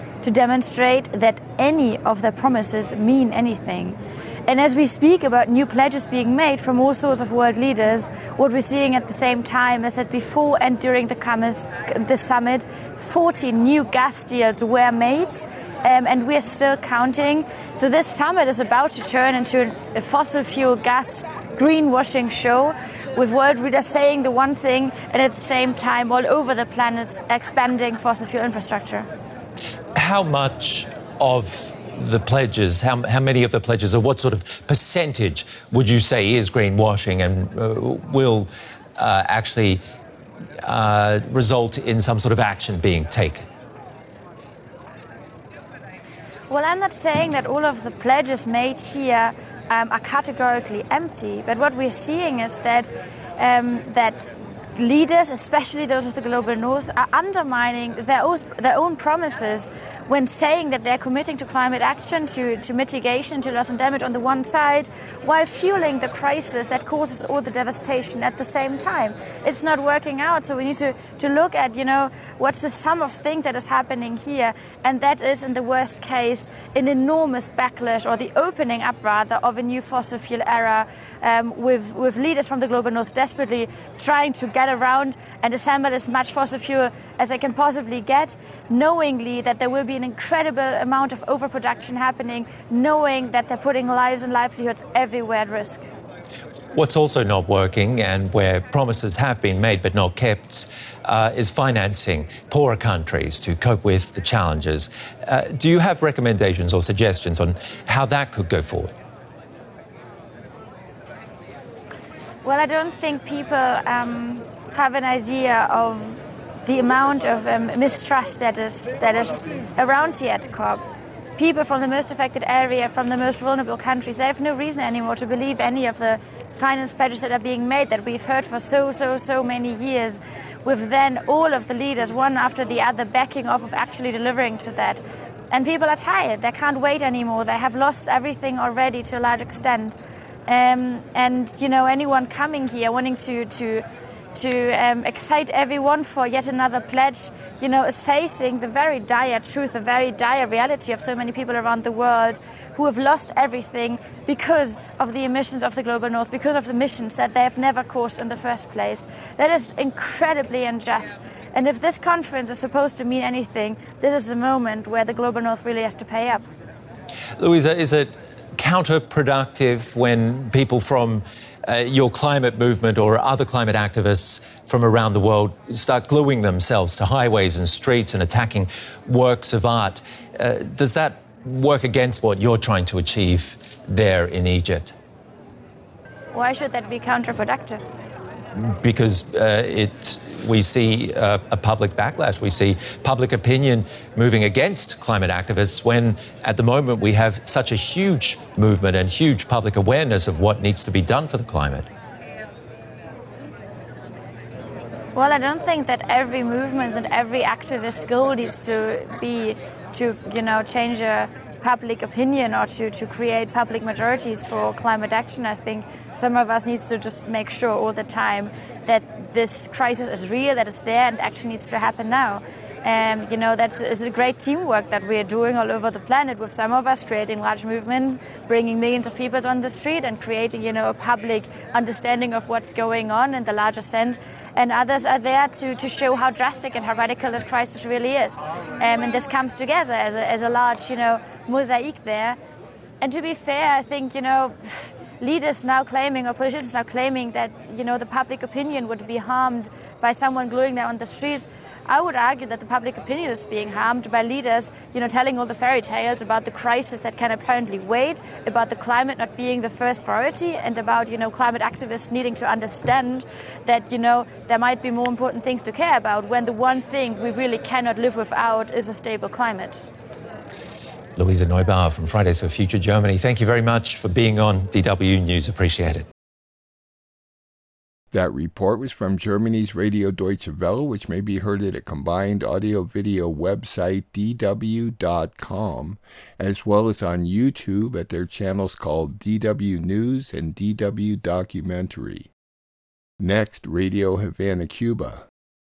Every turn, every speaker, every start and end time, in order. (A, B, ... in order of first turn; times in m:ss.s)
0:00.2-0:29.1 A
0:30.0-0:39.8 B
0:40.7-0:43.5 B
0:46.5-1:35.8 A
1:36.7-1:48.9 B
1:52.4-2:00.8 A
2:01.4-2:46.5 A
2:47.4-3:04.9 B
3:06.3-3:07.8 A
3:08.6-3:21.9 B
3:25.2-4:02.4 A
4:03.0-4:29.8 A
4:31.2-4:36.1 B
4:38.1-4:52.3 C
4:53.2-4:55.3 C